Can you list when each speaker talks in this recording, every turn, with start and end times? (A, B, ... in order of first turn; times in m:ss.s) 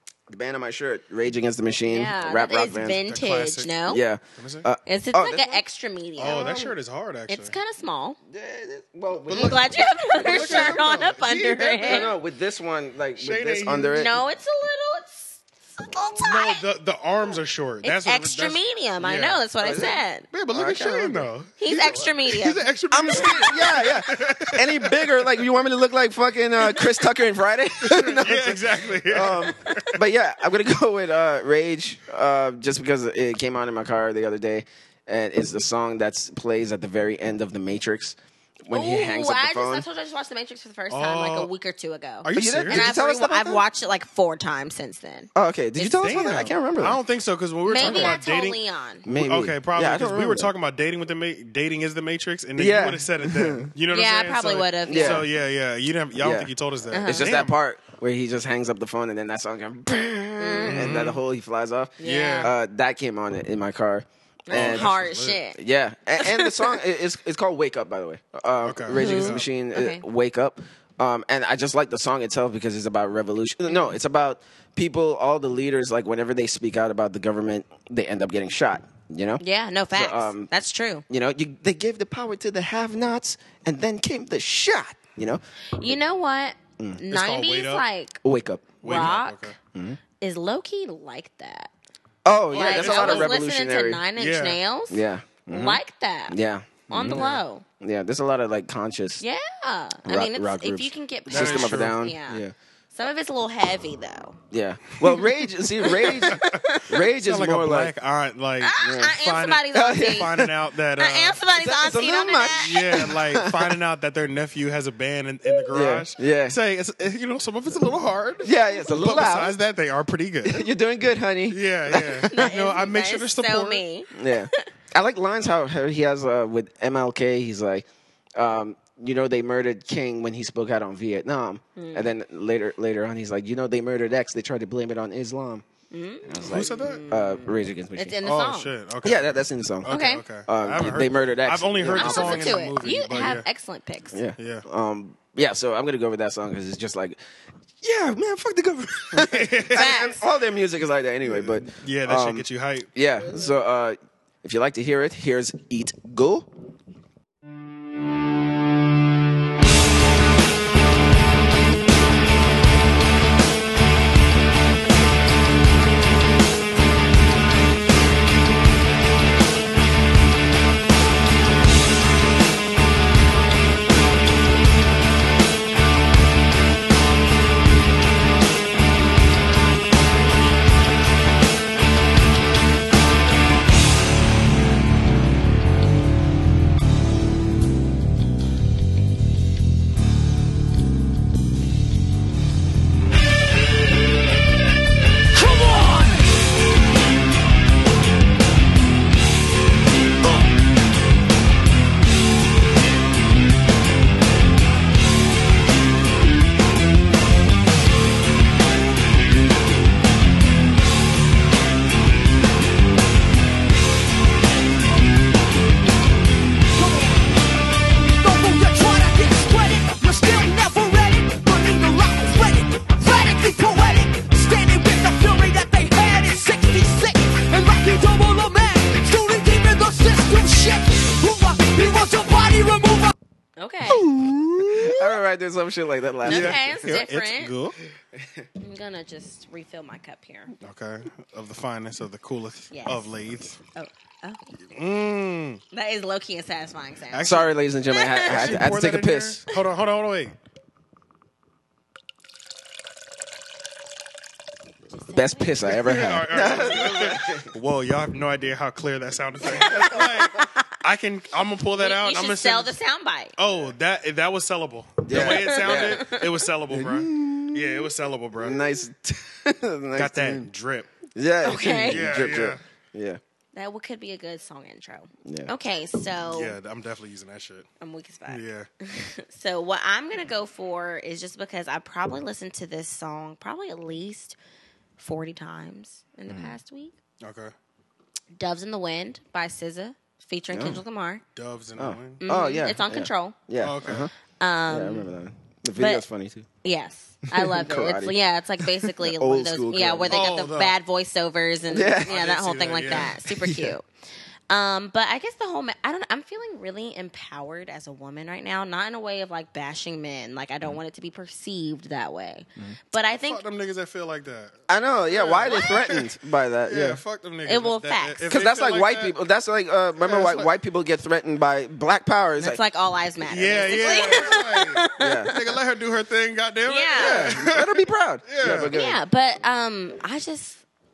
0:00.3-0:03.0 A
0:01.9-0:04.0 B
0:03.0-0:03.7 C
0:03.9-0:05.6 A
0:04.3-0:04.6 C
0:04.9-0:06.6 B
0:06.2-0:06.7 A
0:06.2-0:07.5 C
0:07.3-0:08.2 B
0:08.3-0:10.9 A
0:09.3-0:12.1 C
0:09.3-0:12.1 B
0:11.8-0:14.2 A
0:13.2-0:14.0 C
0:13.9-0:16.6 B
0:16.2-0:19.4 C
0:17.8-0:20.3 B
0:19.6-0:20.0 A
0:20.3-0:25.1 C
0:20.5-0:21.3 A
0:21.6-0:22.6 B
0:22.9-0:39.8 A
0:26.6-0:26.9 C
0:27.8-0:30.0 C
0:38.7-0:45.3 B
0:40.9-0:41.5 C
0:42.2-0:42.8 C
0:42.3-0:43.6 A
0:45.3-0:47.0 A
0:45.8-0:57.5 C
0:45.9-0:46.4 B
0:47.6-0:49.0 B
0:47.8-0:48.2 A
0:49.0-0:50.5 A
0:52.6-0:53.7 A
0:53.9-0:55.3 B
0:54.8-0:55.3 A
0:56.2-1:04.9 A
0:56.9-0:57.3 B
1:00.4-1:01.0 B
1:00.6-1:01.2 C
1:02.0-1:02.5 B
1:02.0-1:02.5 C
1:04.4-1:05.6 B
1:04.5-1:05.4 C
1:05.5-1:19.4 A
1:06.2-1:06.8 B
1:08.6-1:09.5 C
1:08.9-1:10.0 B
1:19.4-1:21.0 B
1:19.9-1:20.5 A
1:21.1-1:25.9 A
1:25.8-1:28.2 B
1:27.1-1:27.8 C
1:28.2-1:29.1 A
1:28.8-1:29.6 C
1:28.8-1:29.5 B
1:29.7-1:30.0 A
1:30.2-1:31.7 B
1:32.2-1:34.0 A
1:32.5-1:33.4 C
1:32.5-1:36.3 B
1:34.2-1:34.6 C
1:34.9-1:37.3 A
1:36.9-1:37.6 B
1:37.0-1:37.4 C
1:37.8-1:39.2 A
1:39.2-1:42.4 B
1:40.0-1:42.5 A
1:41.3-1:42.0 C
1:42.9-1:44.4 B
1:44.5-1:47.9 A
1:45.8-1:46.8 B
1:46.3-2:00.7 C
1:48.6-1:50.4 B
1:48.8-1:49.1 A
1:49.7-1:50.5 A
1:51.0-1:53.1 B
1:51.8-1:53.8 A
1:55.7-1:56.6 A
1:58.4-1:59.5 A
2:00.4-2:02.4 A
2:01.5-2:03.8 C
2:02.3-2:04.6 B
2:04.1-2:15.6 A
2:11.8-2:12.1 B
2:15.9-2:18.7 B
2:16.2-2:18.2 A
2:16.4-2:17.1 C
2:18.2-2:23.4 C
2:19.0-2:19.9 A
2:19.9-2:20.2 B
2:20.4-2:22.6 A
2:21.9-2:24.2 B
2:24.1-2:27.2 A
2:24.4-2:24.6 C
2:27.8-2:36.5 A
2:29.1-2:29.9 C
2:29.7-2:30.2 B
2:31.2-2:32.9 C
3:36.7-3:37.3 D
3:38.2-3:53.1 D
3:53.6-3:54.0 B
3:53.9-3:55.2 C
3:54.6-3:56.9 A
3:56.2-3:57.7 C
3:56.2-3:57.5 B
3:58.6-4:00.5 B
4:00.6-4:03.6 C
4:02.7-4:03.0 B
4:03.7-4:04.5 B
4:04.7-4:05.6 C
4:05.7-4:07.3 B
4:07.1-4:07.5 C
4:07.2-4:09.4 A
4:07.9-4:08.6 B
4:08.3-4:10.3 C
4:14.9-4:15.8 B
4:15.1-4:17.5 A
4:15.7-4:22.7 C
4:19.4-4:20.6 B
4:19.5-4:20.0 A
4:21.8-4:23.3 B
4:23.4-4:28.6 C
4:25.0-4:26.1 A
4:25.1-4:26.4 B
4:26.7-4:30.5 A
4:30.0-4:30.9 C
4:31.1-4:33.2 A
4:31.4-4:32.3 B
4:31.8-4:32.6 C
4:33.5-4:36.6 B
4:35.2-4:35.5 A
4:36.3-4:37.7 C
4:37.8-4:44.4 B
4:38.3-4:38.7 C
4:45.0-4:46.9 B
4:46.3-4:46.6 A
4:47.2-4:47.5 C
4:48.3-4:51.2 B
4:50.5-4:50.8 A
4:51.3-4:52.2 C
4:51.8-4:54.1 A
4:52.2-4:53.4 B
4:53.6-4:54.1 C
4:54.2-4:55.0 B
4:54.7-4:56.5 A
4:55.8-4:56.0 B
4:56.6-5:03.8 B
4:57.4-4:58.2 A
4:58.9-5:00.2 A
5:00.1-5:00.8 C
5:01.7-5:02.1 A
5:02.0-5:03.1 C
5:02.9-5:03.7 A
5:04.5-5:13.4 B
5:13.2-5:14.6 C
5:14.7-5:17.0 A
5:15.1-5:16.0 C
5:16.7-5:19.1 C
5:17.4-5:18.3 B
5:18.3-5:22.6 A
5:20.0-5:20.5 C
5:22.4-5:25.6 B
5:23.2-5:28.7 C
5:25.0-5:25.3 A
5:26.6-5:27.4 B
5:26.9-5:29.0 A
5:28.7-5:30.6 B